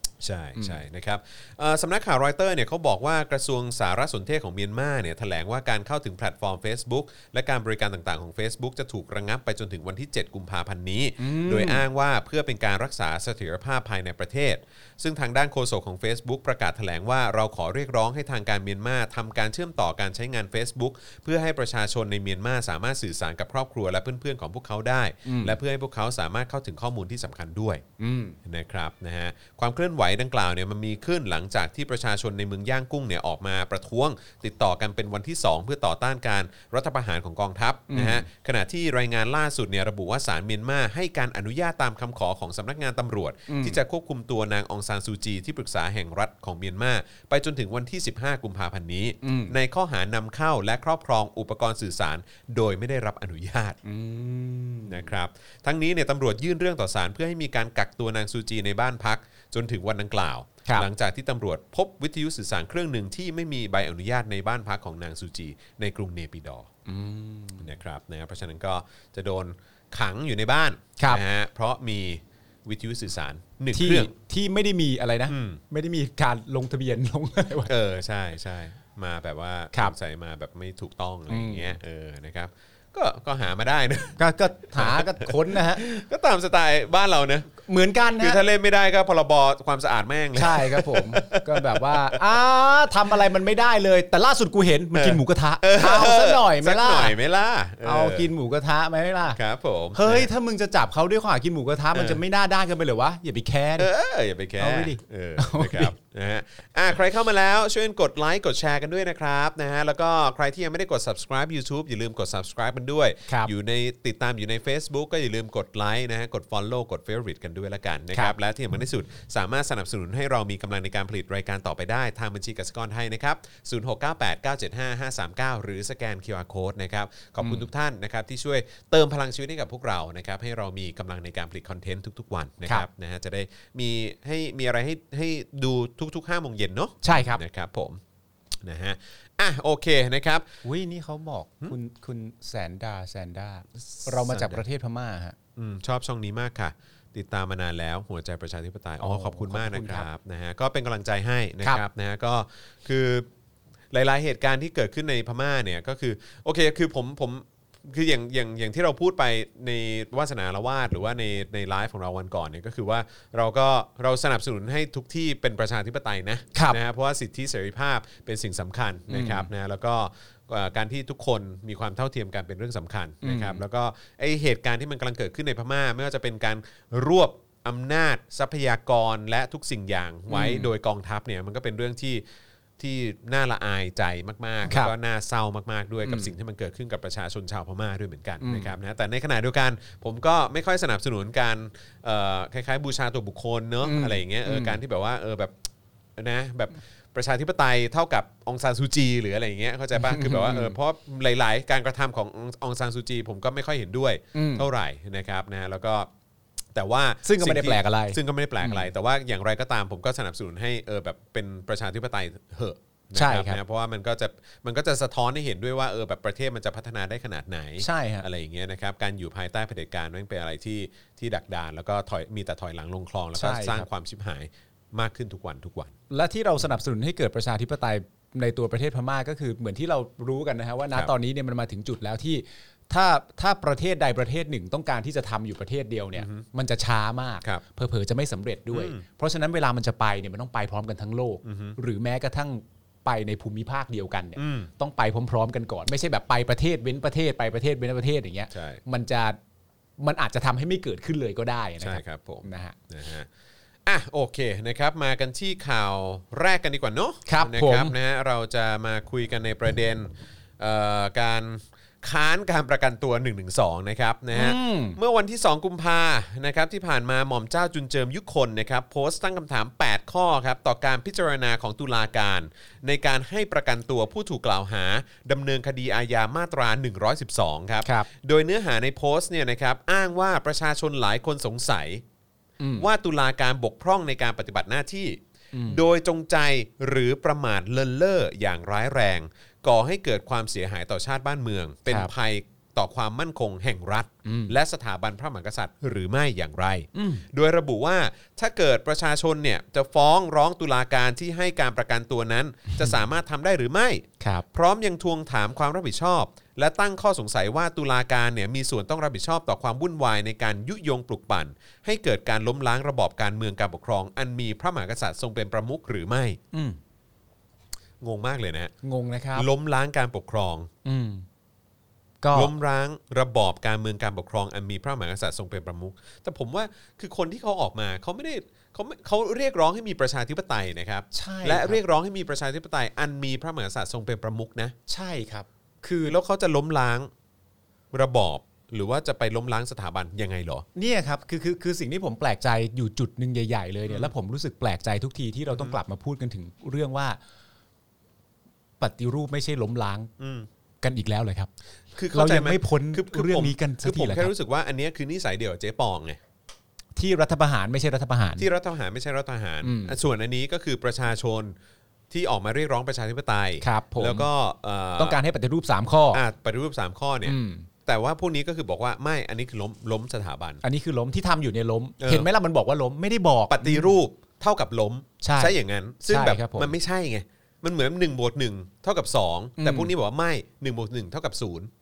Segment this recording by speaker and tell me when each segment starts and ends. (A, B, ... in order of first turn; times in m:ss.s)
0:00.2-0:27.8 A
0:11.2-0:11.8 B
0:25.2-0:25.6 B
0:28.0-0:28.4 B
0:28.4-0:53.8 A
0:37.9-0:38.3 B
0:43.5-0:43.8 B
0:49.2-0:49.5 B
0:53.8-0:55.1 B
0:54.9-1:06.7 A
1:06.9-1:07.7 B
1:07.6-1:14.1 A
1:13.7-1:17.7 B
1:15.3-1:15.6 A
1:17.7-1:24.2 A
1:21.3-1:21.8 B
1:24.2-1:25.8 B
1:24.7-1:27.5 A
1:27.6-1:28.4 B
1:28.2-1:32.2 A
1:30.4-1:37.2 B
1:34.9-1:38.3 A
1:37.8-1:39.4 B
1:39.4-1:40.3 A
1:40.0-1:43.9 B
1:41.9-1:42.2 A
1:43.8-2:18.0 A
1:44.6-1:45.9 B
2:07.4-2:07.7 B
2:17.0-2:17.4 B
2:18.6-2:20.5 A
2:20.6-2:25.4 B
2:24.0-2:24.6 A
2:25.6-2:33.3 A
2:29.0-2:30.1 B
2:33.9-3:02.2 A
2:46.6-2:46.8 B
2:49.1-2:49.5 B
2:53.2-2:53.6 B
3:00.3-3:00.7 B
3:02.8-3:15.6 A
3:04.7-3:04.9 B
3:06.0-3:06.3 B
3:08.4-3:08.7 B
3:13.8-3:14.8 B
3:16.2-3:26.1 A
3:20.0-3:20.8 B
3:24.3-3:24.7 B
3:26.7-3:46.0 A
3:27.2-3:28.9 B
3:33.2-3:33.6 B
3:37.8-3:38.3 B
3:43.4-3:43.9 B
3:46.1-4:09.4 B
3:56.2-3:56.4 A
3:58.7-3:59.0 A
4:01.4-4:01.8 A
4:04.4-4:04.7 A
4:08.5-4:08.8 A
4:10.0-4:12.8 B
4:11.8-4:13.3 A
4:13.9-4:42.0 A
4:17.3-4:18.0 B
4:24.3-4:25.0 B
4:37.8-4:38.1 B
4:42.6-4:42.9 B
4:42.8-5:16.4 A
4:45.5-4:45.8 B
4:54.2-4:54.6 B
4:57.0-4:57.2 B
5:04.2-5:04.4 B
5:16.5-5:16.8 B
5:18.0-5:18.7 A
5:18.8-5:19.5 B
5:19.4-5:20.7 A
5:20.8-5:21.3 B
5:22.2-5:22.5 B
5:22.3-5:34.7 A
5:31.1-5:31.8 B
5:34.9-5:36.2 B
5:36.1-5:37.1 A
5:37.9-5:40.7 A
5:40.8-5:47.2 B
5:43.9-5:44.1 A
5:45.5-5:45.8 A
5:48.8-5:50.1 B
5:50.2-5:50.5 A
5:50.8-5:51.5 B
5:51.9-5:56.2 A
5:52.1-5:54.3 B
5:57.0-5:58.5 B
5:58.4-6:01.6 A
5:59.6-6:00.0 B
6:02.1-6:05.2 A
6:03.6-6:04.3 B
6:05.0-6:06.2 B
6:06.1-6:10.6 A
6:07.2-6:07.7 B
6:10.6-6:14.0 B
6:12.0-6:12.3 A
6:13.5-6:21.7 A
6:15.2-6:16.7 B
6:19.6-6:19.9 B